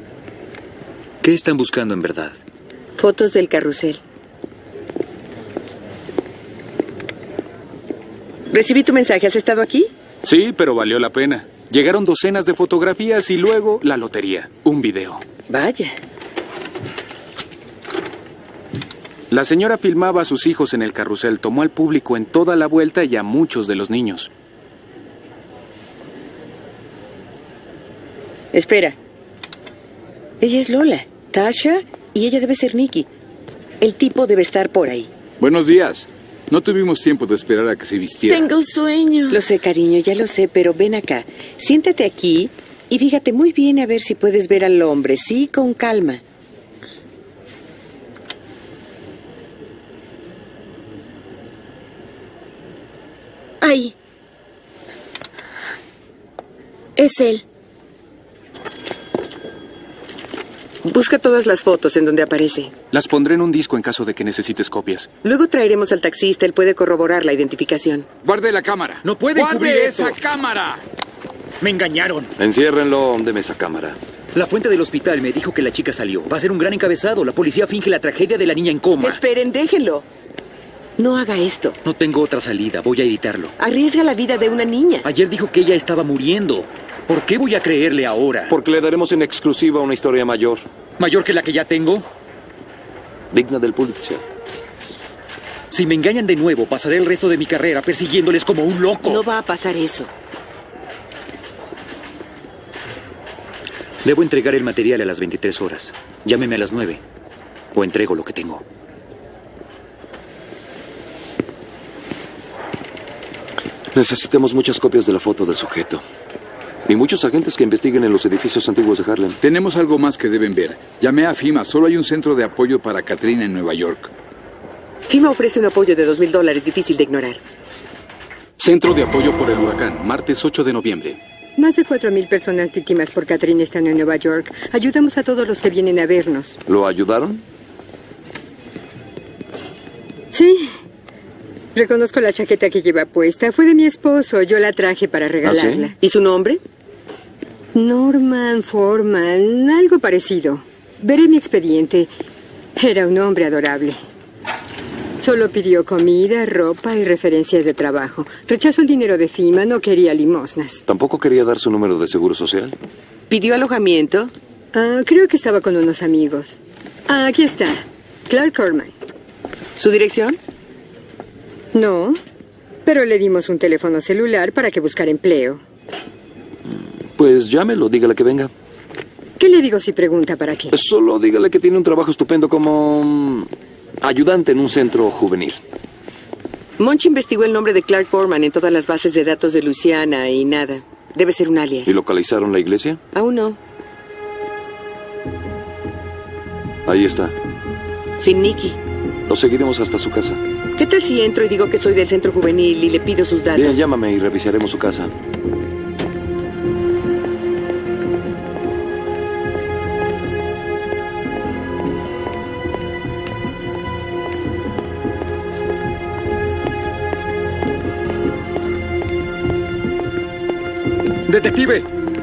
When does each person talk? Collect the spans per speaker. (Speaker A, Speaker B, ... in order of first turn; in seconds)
Speaker A: 1.2-2.4, 69.0-70.2, 71.6-72.3, 74.3-79.2, 81.8-83.5, 85.0-88.5, 91.0-92.1, 95.7-99.2, 104.0-107.0, 107.7-108.6, 221.2-221.9
Speaker B: 3.0-4.0, 8.5-9.9, 15.5-15.9, 28.5-28.9, 30.4-33.1, 33.8-35.1, 39.3-46.2, 60.8-62.7, 65.2-68.1, 79.0-80.0, 81.0-81.8, 83.6-85.1, 99.0-100.1, 125.1-127.4, 146.0-146.6, 163.3-164.3, 169.8-170.4, 186.8-191.9, 193.1-193.6, 198.2-198.8, 200.8-203.8
Speaker C: 10.2-15.2, 19.3-24.3, 62.9-65.1
Speaker D: 35.4-38.5, 68.2-70.8, 119.4-124.1
Speaker E: 38.3-39.4, 53.6-53.9, 57.0-57.4
Speaker F: 72.4-74.0, 88.5-90.7, 93.3-94.2, 113.9-116.0, 116.8-119.4, 136.7-137.4, 145.4-145.9, 160.9-162.8, 176.7-178.5, 180.7-185.6, 191.8-193.0, 196.8-197.3, 199.3-200.4, 203.5-205.1
Speaker G: 128.6-131.2
Speaker H: 131.6-136.6, 140.3-140.7, 141.7-145.9, 147.7-152.1, 152.8-154.0, 155.2-160.8, 164.7-168.9, 171.7-172.2, 172.8-175.6, 179.4-180.8